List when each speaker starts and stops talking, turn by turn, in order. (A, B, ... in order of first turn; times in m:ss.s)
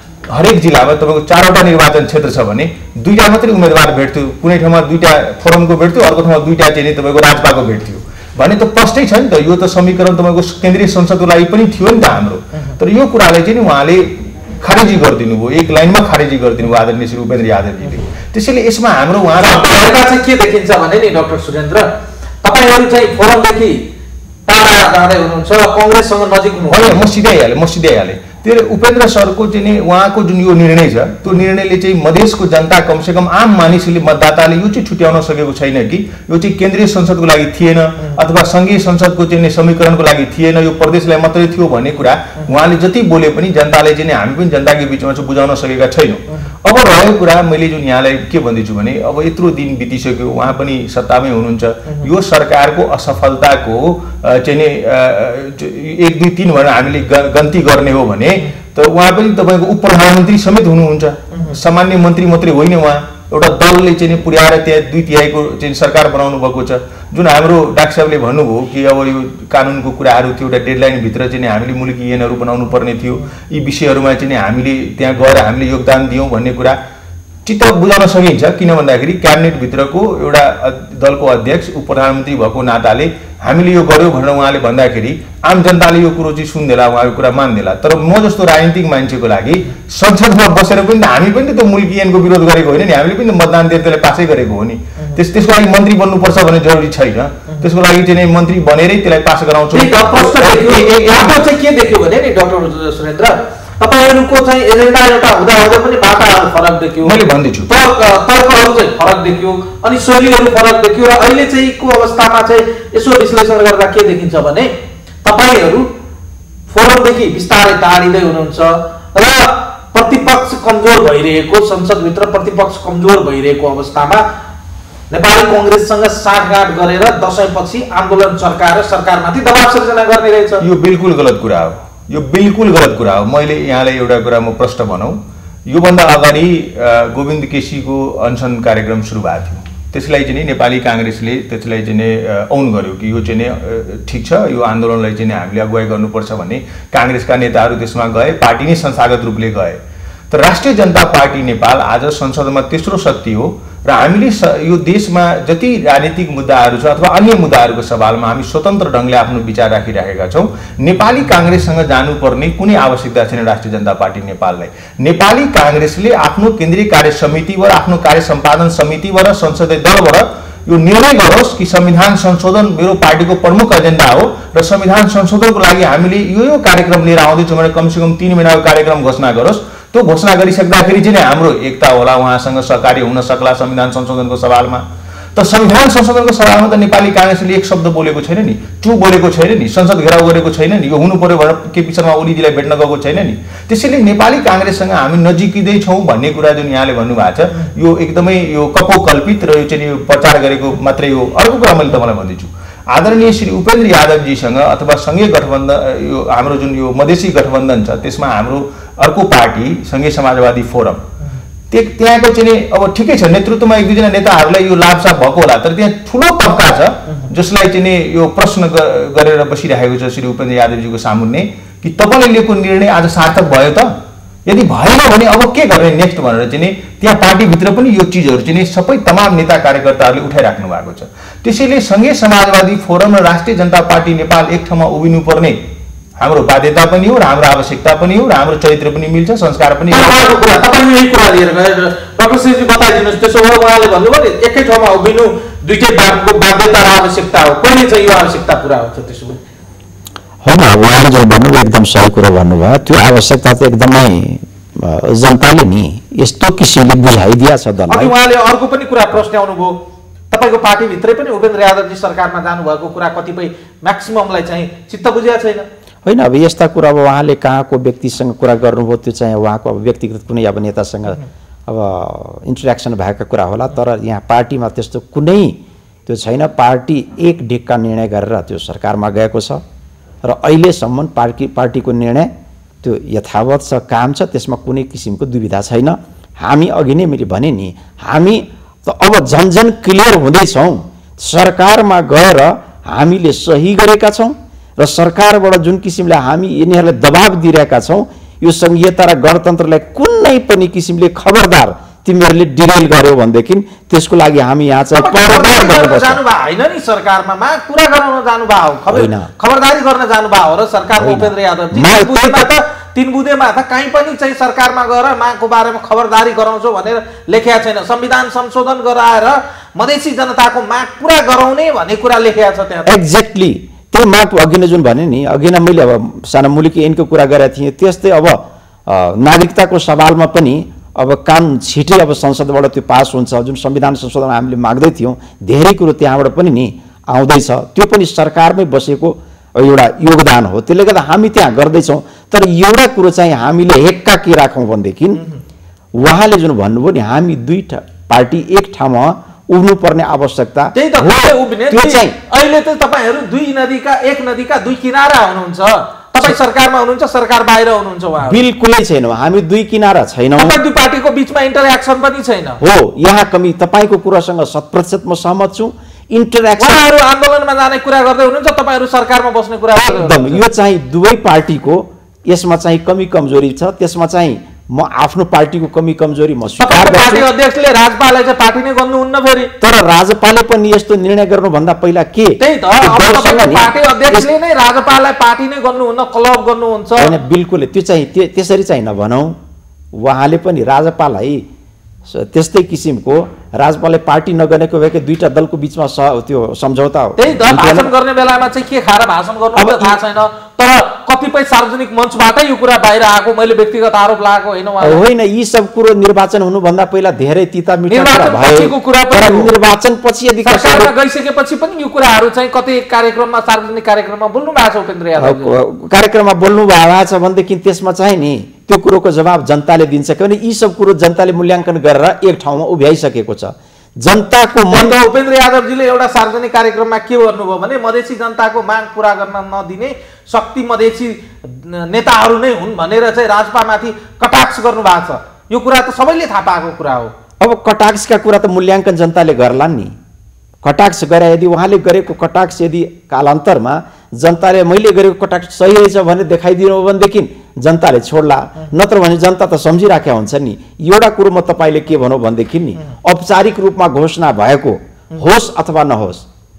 0:00.3-0:20.0 A
0:19.4-0:21.9 B
0:22.4-0:23.9 B
0:24.5-0:27.0 B
0:26.7-1:16.8 A
1:17.4-1:41.5 A
1:39.7-1:54.7 B
1:47.0-1:47.7 A
1:55.2-1:55.9 B
1:56.7-2:04.2 B
2:05.1-2:10.6 B
2:10.6-2:29.8 A
2:30.3-3:31.0 A
3:31.7-3:43.9 A
3:44.4-3:55.6 A
3:56.2-4:00.5 A
3:59.9-4:09.4 B
4:10.4-4:18.1 C
4:17.9-4:19.8 B
4:20.3-4:25.7 B
4:26.0-4:39.6 C
4:40.2-4:42.3 C
4:42.8-5:06.2 C
5:05.0-5:23.0 B
5:08.9-5:09.3 C
5:11.0-5:12.5 C
5:22.9-5:45.2 C
5:46.0-5:52.2 C
5:50.7-5:58.4 B
5:58.2-6:00.6 C
6:00.4-6:02.6 B
6:02.6-6:06.8 C
6:06.6-6:10.4 B
6:09.8-6:17.3 C
6:16.6-6:19.5 B
6:19.6-6:24.3 C
6:22.4-6:27.1 B
6:27.0-6:29.4 C
6:29.9-6:31.4 C
6:32.0-6:37.9 C
6:37.2-6:45.0 B
6:39.6-6:40.0 C
6:44.8-6:50.9 C
6:47.9-6:49.5 B
6:50.4-6:55.6 B
6:55.2-7:05.0 C
7:04.7-7:17.1 B
7:17.4-7:19.9 C
7:20.6-7:36.2 C